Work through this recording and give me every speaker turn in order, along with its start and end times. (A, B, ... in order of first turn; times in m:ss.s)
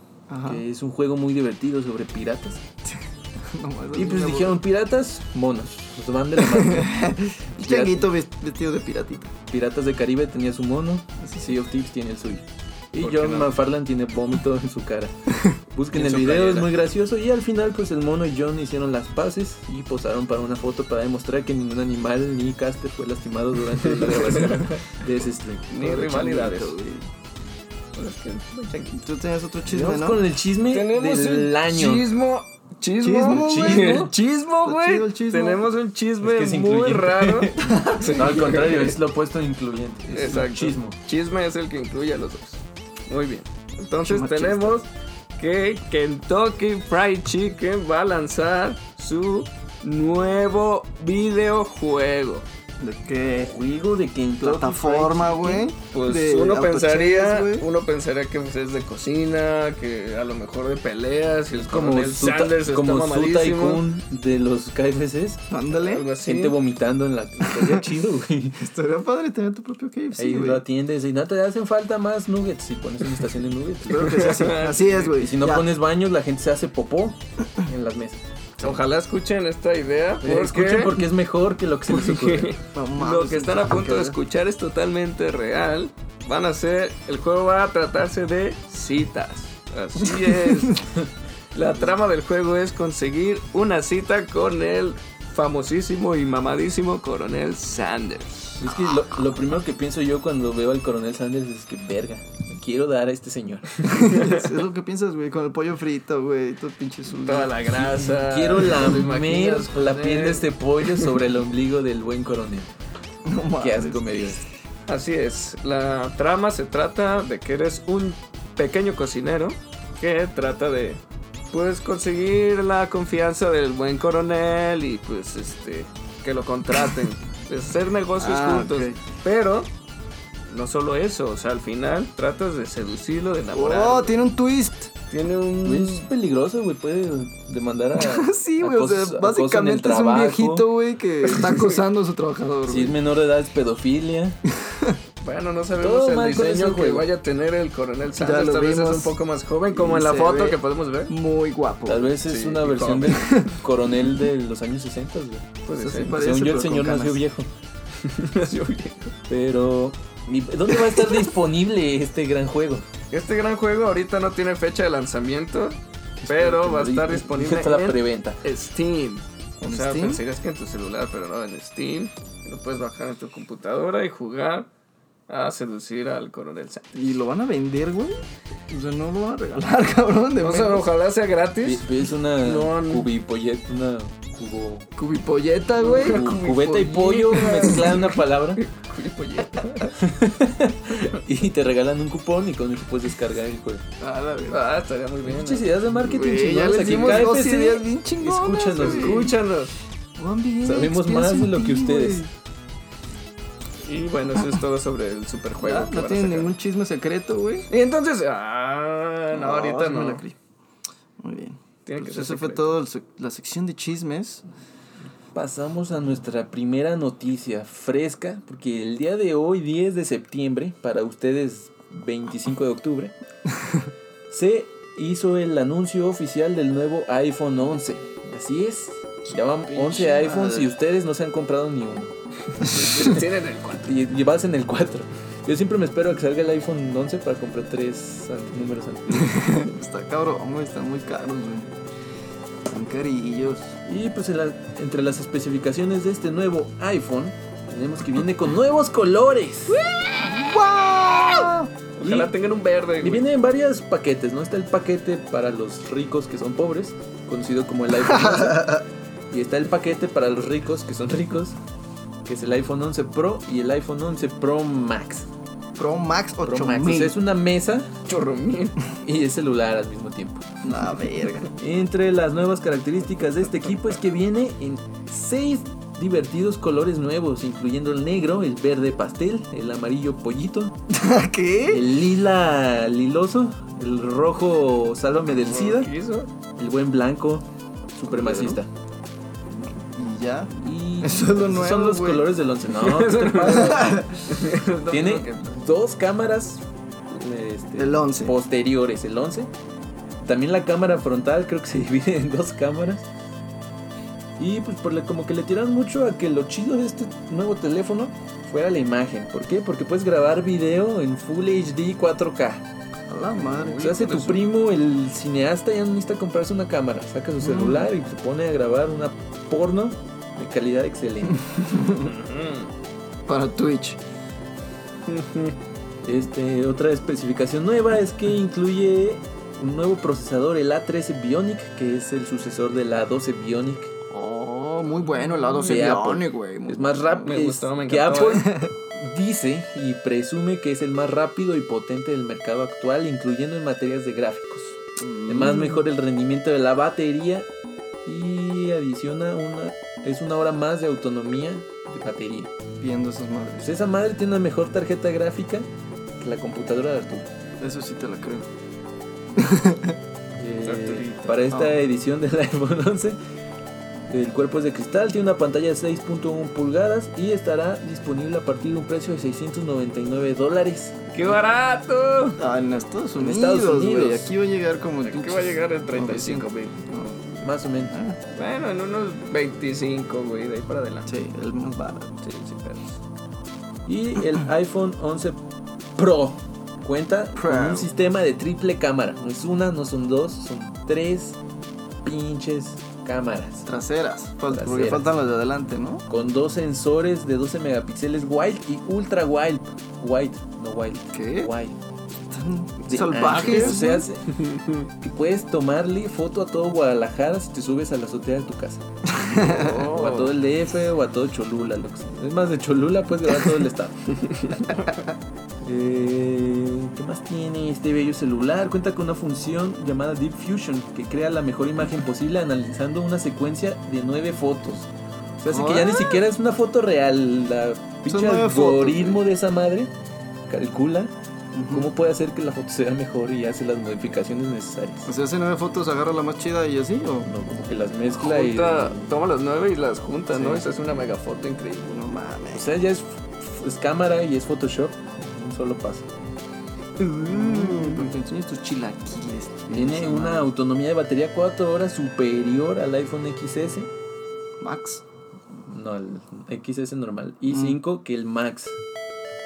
0:00.3-0:00.6 A
0:00.4-0:02.6 B
0:02.8-0:04.6 A
0:03.9-0:07.0 B
0:06.4-0:09.3 A
0:07.6-0:08.1 B
0:09.5-0:25.7 B
0:11.2-0:11.5 A
0:13.0-0:13.5 C
0:15.9-0:16.7 C
0:23.9-0:24.8 C
0:25.7-0:26.8 C
0:25.7-0:27.1 A
0:27.9-0:29.0 C
0:28.9-0:30.2 A
0:29.7-0:32.1 B
0:30.7-0:39.0 C
0:33.0-0:35.6 A
0:33.3-0:34.1 B
0:36.2-0:41.0 B
0:37.6-0:38.5 A
0:40.1-0:52.5 C
0:44.0-0:44.8 A
0:52.8-0:53.5 A
0:53.4-0:55.7 B
0:54.4-0:57.7 A
0:55.9-1:03.8 C
1:01.6-1:05.4 B
1:05.5-1:06.1 A
1:05.7-1:06.6 C
1:06.2-1:08.6 B
1:07.5-1:07.8 A
1:08.6-1:10.6 A
1:10.1-1:14.2 B
1:13.9-1:15.7 A
1:13.9-1:15.1 C
1:15.2-1:18.2 B
1:18.6-1:21.1 C
1:20.2-1:22.6 B
1:21.9-1:30.8 C
1:22.7-1:24.2 A
1:30.0-1:30.8 A
1:31.5-1:38.6 C
1:38.6-1:43.9 B
1:43.8-1:47.6 A
1:43.9-1:44.5 C
1:47.2-1:51.0 C
1:47.7-1:52.7 B
1:53.2-1:54.4 A
1:53.6-1:54.4 B
1:54.9-2:01.0 C
2:01.5-2:09.7 C
2:08.2-2:09.0 A
2:10.5-2:14.2 C
2:13.5-2:14.9 A
2:15.1-2:16.1 C
2:15.6-2:20.7 B
2:18.0-2:23.0 A
2:22.7-2:24.4 B
2:24.5-2:25.0 A
2:25.2-2:31.1 C
2:25.8-2:27.0 B
2:28.2-2:29.2 A
2:29.7-2:32.2 A
2:31.9-2:35.5 B
2:32.2-2:33.4 C
2:33.2-2:33.5 A
2:35.7-2:36.2 C
2:35.8-2:37.2 A
2:36.2-2:37.5 B
2:38.0-2:39.1 C
2:39.3-2:42.8 B
2:40.9-2:41.2 A
2:43.1-2:54.7 C
2:46.2-2:48.4 B
2:49.6-2:50.2 A
2:55.3-2:56.8 C
2:56.9-2:58.2 A
2:58.7-3:00.9 A
3:00.4-3:03.1 C
3:01.6-3:04.9 B
3:05.0-3:06.8 A
3:05.8-3:08.6 B
3:05.8-3:10.0 C
3:07.3-3:07.9 A
3:09.4-3:09.8 A
3:10.0-3:13.8 B
3:14.0-3:14.6 A
3:14.4-3:15.7 C
3:15.3-3:19.3 B
3:15.9-3:19.4 A
3:16.6-3:17.3 C
3:18.8-3:19.7 C
3:20.2-3:22.3 A
3:20.6-3:22.3 B
3:23.8-3:26.5 C
3:25.6-3:27.7 A
3:27.7-3:30.3 C
3:29.3-3:30.3 A
3:31.2-3:34.4 A
3:31.8-3:32.7 C
3:35.3-3:43.1 B
3:43.6-3:43.9 A
3:44.3-3:52.1 B
3:49.3-3:50.7 A
3:52.6-3:53.9 C
3:52.6-3:53.2 B
3:53.7-3:59.5 B
3:59.1-4:01.7 A
4:02.7-4:03.8 A
4:03.8-4:09.8 B
4:10.2-4:11.7 A
4:12.0-4:13.2 C
4:12.0-4:12.3 B
4:13.0-4:21.6 B
4:17.9-4:18.8 A
4:22.2-4:25.3 B
4:25.8-4:27.2 A
4:26.4-4:27.9 B
4:28.1-4:28.8 C
4:29.0-4:30.4 B
4:30.6-4:31.5 A
4:31.5-4:40.8 B
4:40.9-4:41.9 A
4:41.7-4:45.9 B
4:45.2-4:46.3 C
4:46.6-4:48.7 B
4:48.1-4:48.6 A
4:49.8-4:52.3 A
4:50.6-4:54.0 B
4:52.7-4:55.4 C
4:53.4-4:54.2 A
4:54.9-4:59.5 B
4:57.8-4:58.3 A
5:00.2-5:03.1 B
5:04.4-5:12.6 B
5:13.1-5:13.8 A
5:13.4-5:14.5 C
5:13.8-5:21.5 B
5:17.4-5:17.9 A
5:21.3-5:22.1 A
5:22.0-5:22.7 C
5:23.3-5:24.0 A
5:25.1-5:25.5 C
5:26.0-5:33.9 B
5:34.1-5:37.4 A
5:35.6-5:47.5 B
5:37.2-5:38.5 C
5:38.4-5:38.7 A
5:45.0-5:45.9 A
5:48.0-5:52.5 B
5:52.8-5:53.7 A
5:53.6-5:55.7 B
5:56.2-5:57.3 B
5:57.6-5:58.5 A
5:59.3-6:00.0 A
6:00.4-6:03.2 B
6:00.6-6:01.3 C
6:01.5-6:01.8 A
6:04.1-6:11.3 B
6:11.1-6:12.4 C
6:12.4-6:18.2 A
6:13.2-6:14.3 B
6:15.0-6:16.8 C
6:17.4-6:18.0 B
6:18.3-6:21.1 C
6:21.0-6:22.1 A
6:22.2-6:23.0 C
6:23.9-6:25.4 B
6:26.0-6:31.4 B
6:27.3-6:27.9 A
6:32.0-6:33.7 B
6:33.6-6:36.0 A
6:34.5-6:35.1 B
6:36.1-6:41.8 B
6:41.1-6:41.5 A
6:42.2-6:44.0 A
6:42.9-6:44.3 B
6:43.2-6:44.9 C
6:45.0-6:54.1 B
6:49.0-6:49.9 A
6:49.4-6:50.4 C
6:54.3-6:54.6 C
6:55.6-7:09.9 B
7:05.5-7:06.2 A
7:08.1-7:09.2 A
7:10.5-7:11.1 B
7:11.5-7:11.9 A
7:11.7-7:15.1 B
7:15.0-7:17.3 A
7:17.2-7:19.1 B
7:18.1-7:22.0 C
7:20.3-7:20.6 A
7:21.9-7:22.6 A
7:22.5-7:26.1 B
7:27.0-7:28.1 C
7:27.2-7:30.5 A
7:29.7-7:33.9 B
7:34.6-7:35.0 A
7:35.7-7:38.8 B
7:37.5-7:37.8 A